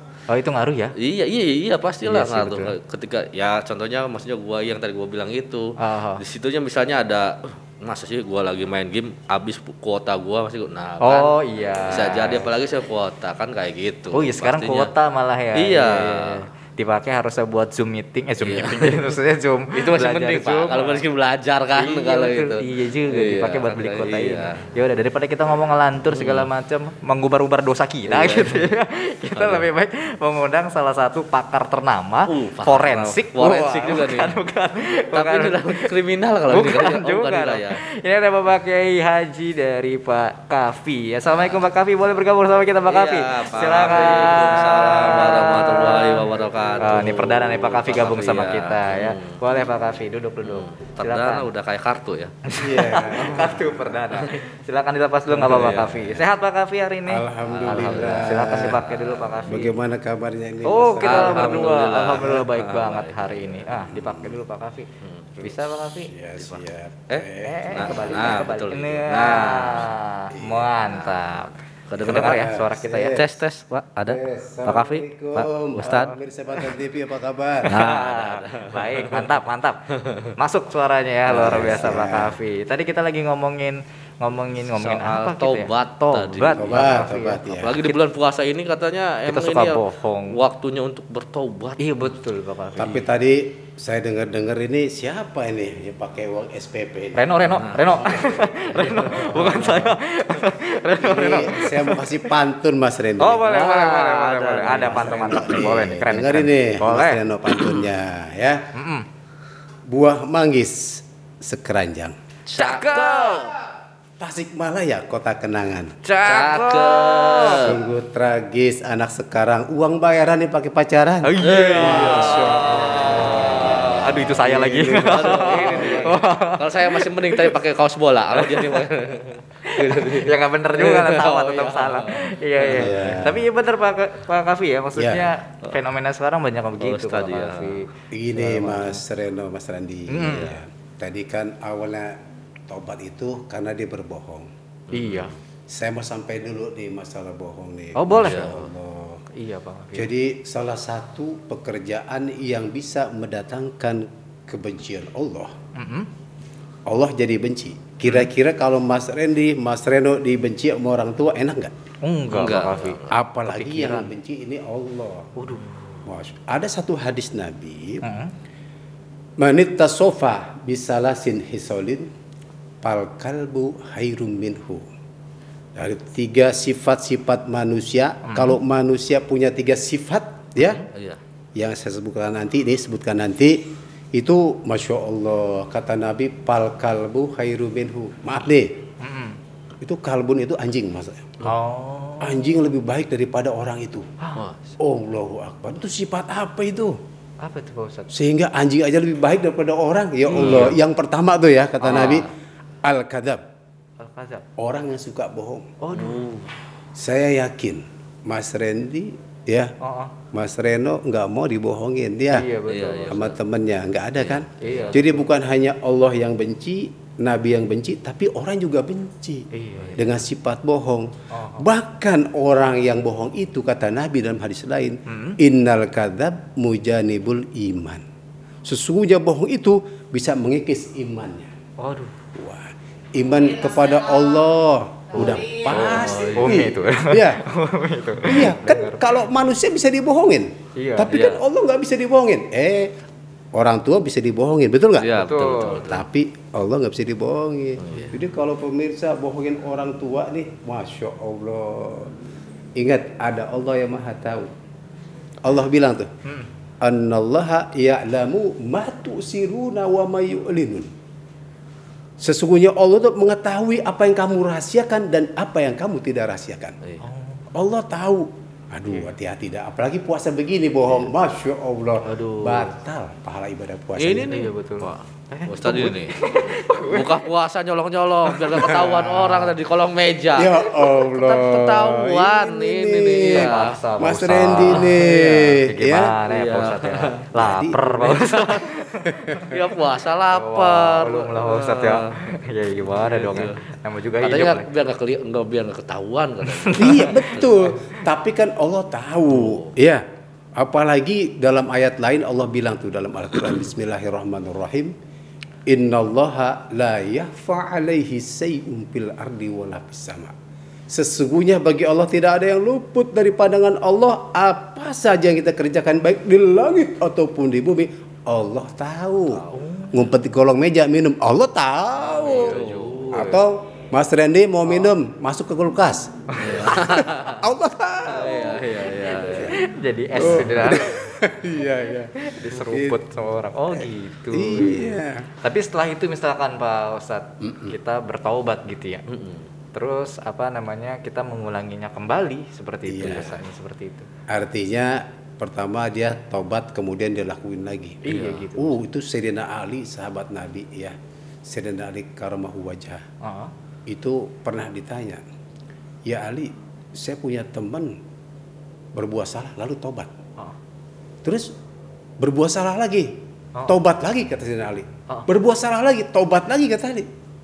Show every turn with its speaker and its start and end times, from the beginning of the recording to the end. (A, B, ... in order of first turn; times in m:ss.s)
0:00.3-0:00.9 A
0:01.0-0:11.3 B
0:02.0-0:02.8 A
0:05.8-0:06.2 A
0:11.0-0:12.5 A
0:11.8-0:14.9 B
0:14.1-0:21.0 A
0:15.6-0:16.4 B
0:18.4-0:19.1 B
0:19.7-0:24.7 B
0:21.8-0:35.9 A
0:26.1-0:26.5 B
0:28.1-0:28.7 B
0:29.4-0:29.7 B
0:32.3-0:34.4 B
0:35.1-0:37.8 B
0:36.5-0:46.3 A
0:41.3-0:41.6 B
0:42.9-0:49.4 B
0:46.8-0:51.5 A
0:50.4-0:52.3 B
0:52.5-0:59.8 A
0:52.6-0:54.0 C
0:54.1-0:54.4 B
0:55.3-0:56.2 B
0:57.1-0:58.8 C
0:57.5-0:59.7 B
0:59.5-1:01.8 C
1:00.6-1:04.9 A
1:01.0-1:03.7 B
1:03.9-1:04.4 C
1:05.0-1:05.3 B
1:05.4-1:08.4 C
1:05.4-1:06.1 A
1:06.4-1:09.9 B
1:07.4-1:13.2 A
1:10.3-1:10.9 C
1:11.9-1:16.1 B
1:12.0-1:13.3 C
1:14.1-1:17.7 C
1:17.6-1:19.8 A
1:17.7-1:19.3 B
1:19.9-1:20.3 B
1:20.4-1:28.0 A
1:21.3-1:22.0 B
1:21.3-1:22.4 C
1:24.7-1:31.8 B
1:26.5-1:27.8 C
1:29.2-1:30.4 A
1:31.8-1:33.0 A
1:32.8-1:37.3 C
1:37.2-1:42.3 A
1:37.5-1:40.0 B
1:38.1-1:38.6 C
1:41.0-1:44.0 C
1:43.2-1:47.7 A
1:43.5-1:45.5 B
1:44.8-1:48.6 C
1:48.7-1:49.1 A
1:49.9-1:52.2 C
1:52.5-1:53.6 B
1:52.6-1:53.6 A
1:54.2-1:56.0 C
1:56.0-1:57.8 A
1:56.2-1:57.8 B
1:57.6-2:02.8 C
2:01.2-2:07.6 A
2:01.4-2:04.2 B
2:04.4-2:06.2 C
2:04.8-2:13.2 B
2:08.3-2:08.9 A
2:09.6-2:19.0 A
2:12.6-2:13.4 C
2:15.0-2:15.3 C
2:16.8-2:17.8 B
2:18.1-2:24.5 C
2:20.1-2:20.6 A
2:24.9-2:25.3 B
2:24.9-2:25.3 A
2:25.7-2:29.2 C
2:27.9-2:28.5 A
2:28.1-2:28.6 B
2:29.3-2:30.1 A
2:29.9-2:35.5 C
2:35.8-2:36.1 A
2:36.9-2:41.7 C
2:42.0-2:44.1 A
2:42.3-2:43.1 B
2:43.1-2:45.4 C
2:45.4-2:46.1 A
2:46.0-2:48.0 C
2:48.0-2:48.3 A
2:49.4-2:52.1 C
2:52.8-2:54.9 C
2:55.8-3:00.8 C
2:58.2-2:58.6 A
3:00.8-3:01.2 B
3:01.6-3:08.8 C
3:09.0-3:09.4 A
3:09.8-3:11.4 C
3:11.4-3:12.5 A
3:12.2-3:14.1 C
3:14.4-3:14.7 B
3:14.8-3:17.0 C
3:17.4-3:18.1 A
3:18.1-3:22.3 C
3:20.3-3:20.8 A
3:20.3-3:20.8 B
3:21.8-3:22.2 A
3:21.9-3:22.3 B
3:22.8-3:23.4 C
3:24.0-3:24.4 A
3:24.6-3:25.7 C
3:25.8-3:26.5 A
3:25.9-3:26.4 B
3:26.9-3:29.7 C
3:29.8-3:30.1 A
3:30.3-3:32.5 C
3:32.3-3:33.3 A
3:32.6-3:33.4 B
3:33.1-3:48.0 C
3:34.2-3:35.0 B
3:34.6-3:35.2 A
3:39.5-3:40.1 A
3:41.3-3:41.6 A
3:45.1-3:45.4 A
3:48.6-3:51.5 C
3:51.8-3:52.1 A
3:52.3-3:57.4 C
3:55.1-3:59.2 A
3:55.7-3:56.6 B
3:58.2-4:02.9 C
4:00.8-4:01.1 A
4:01.1-4:01.4 B
4:03.5-4:05.2 C
4:05.0-4:06.1 B
4:05.2-4:05.8 A
4:05.8-4:12.1 C
4:07.8-4:08.2 B
4:12.8-4:14.5 C
4:15.4-4:16.1 C
4:16.8-4:20.9 C
4:22.2-4:26.8 C
4:27.0-4:27.5 A
4:27.5-4:34.4 C
4:32.0-4:32.7 A
4:34.0-4:36.2 B
4:34.3-4:37.2 A
4:36.7-4:43.8 B
4:38.3-4:39.5 A
4:40.4-4:46.1 C
4:43.2-4:49.5 A
4:44.3-4:45.0 B
4:46.3-4:47.2 B
4:47.4-4:48.2 C
4:48.1-4:48.6 B
4:49.0-4:49.3 C
4:49.4-4:52.1 B
4:50.3-4:54.7 A
4:52.9-4:53.6 B
4:54.2-4:57.6 B
4:56.4-4:58.0 A
4:56.8-5:00.0 C
4:59.3-4:59.7 B
5:00.6-5:04.9 C
5:05.7-5:10.4 C
5:10.9-5:22.6 C
5:19.3-5:19.6 B
5:19.5-5:20.1 A
5:22.0-5:23.4 A
5:22.2-5:23.0 B
5:23.1-5:29.5 C
5:26.3-5:26.7 A
5:26.4-5:27.4 B
5:28.1-5:29.6 B
5:29.4-5:31.1 A
5:30.2-5:33.1 C
5:32.2-5:39.0 A
5:33.7-5:35.3 C
5:37.4-5:37.8 C
5:39.1-5:39.5 B
5:39.7-5:44.1 A
5:42.9-5:43.3 C
5:44.3-5:53.0 C
5:48.0-5:48.8 A
5:48.1-5:48.4 B
5:53.2-5:53.5 A
5:53.9-5:55.2 C
5:56.0-5:58.0 C
5:58.9-6:00.1 C
6:01.2-6:01.5 C
6:02.2-6:07.1 C